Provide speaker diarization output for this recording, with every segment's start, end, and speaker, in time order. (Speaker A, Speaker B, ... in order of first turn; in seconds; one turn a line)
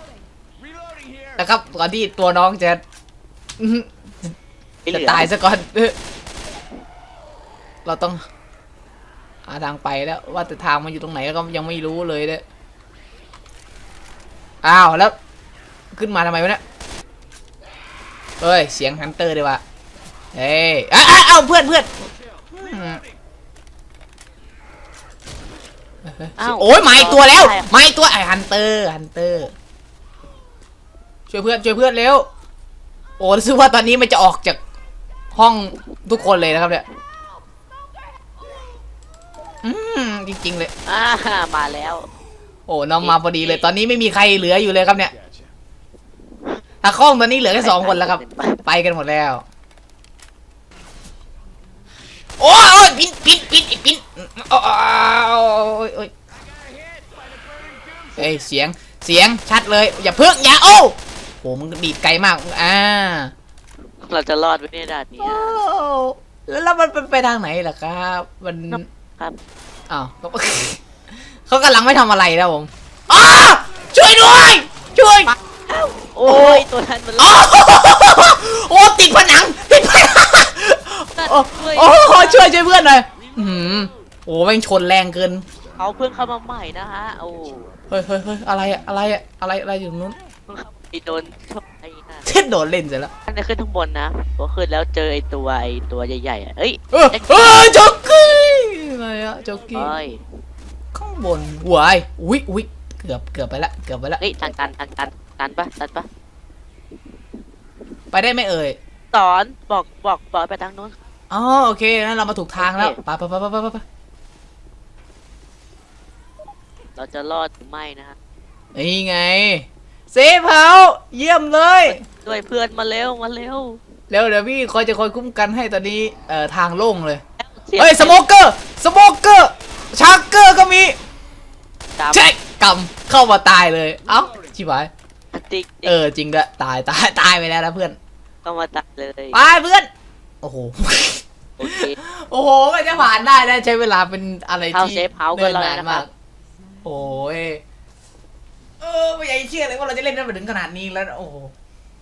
Speaker A: 1.4-2.8
Speaker A: 3.6-4.3
Speaker B: 4.9-5.3
Speaker A: 4.9-6.0
Speaker A: 7.8-8.2
Speaker A: 9.5-12.4
Speaker A: 14.6-15.2
Speaker A: 15.9-16.6
Speaker A: 18.4-19.6
Speaker A: 20.3-23.0
Speaker A: 26.1-29.5
Speaker B: 26.4-27.7
Speaker A: 31.3-32.3
Speaker A: 33.2-34.6
Speaker A: 35.3-36.8
Speaker A: 39.6-40.7
Speaker B: 40.9-42.1
Speaker A: 42.7-45.1
Speaker B: 43.0-43.7
Speaker A: 46.8-49.4
Speaker B: 47.5-48.6
Speaker A: 52.4-56.1
Speaker A: 58.2-63.3
Speaker B: 64.0-65.6
Speaker A: 65.2-68.8
Speaker B: 68.7-69.4
Speaker A: 69.9-70.8
Speaker A: 71.5-75.3
Speaker B: 75.3-77.5
Speaker A: 76.2-76.7
Speaker A: 77.2-85.5
Speaker B: 81.2-82.5
Speaker B: 85.8-87.7
Speaker A: 87.9-90.2
Speaker B: 90.5-92.3
Speaker A: 92.3-93.1
Speaker B: 93.3-97.7
Speaker A: 96.9-99.9
Speaker B: 99.7-100.2
Speaker A: 100.9-104.5
Speaker B: 104.2-106.1
Speaker A: 108.1-108.8
Speaker B: 109.1-111.0
Speaker A: 111.3-113.8
Speaker B: 112.6-113.0
Speaker B: 117.0-118.2
Speaker A: 118.8-122.0
Speaker B: 121.9-123.8
Speaker A: 124.1-127.2
Speaker B: 127.4-128.2
Speaker A: 127.8-131.0
Speaker B: 132.0-132.3
Speaker A: 132.1-134.9
Speaker B: 135.3-136.0
Speaker A: 135.8-138.0
Speaker B: 138.4-139.4
Speaker A: 139.3-139.9
Speaker A: 140.4-146.1
Speaker B: 141.6-142.0
Speaker B: 144.7-146.1
Speaker A: 146.8-147.6
Speaker A: 148.8-151.5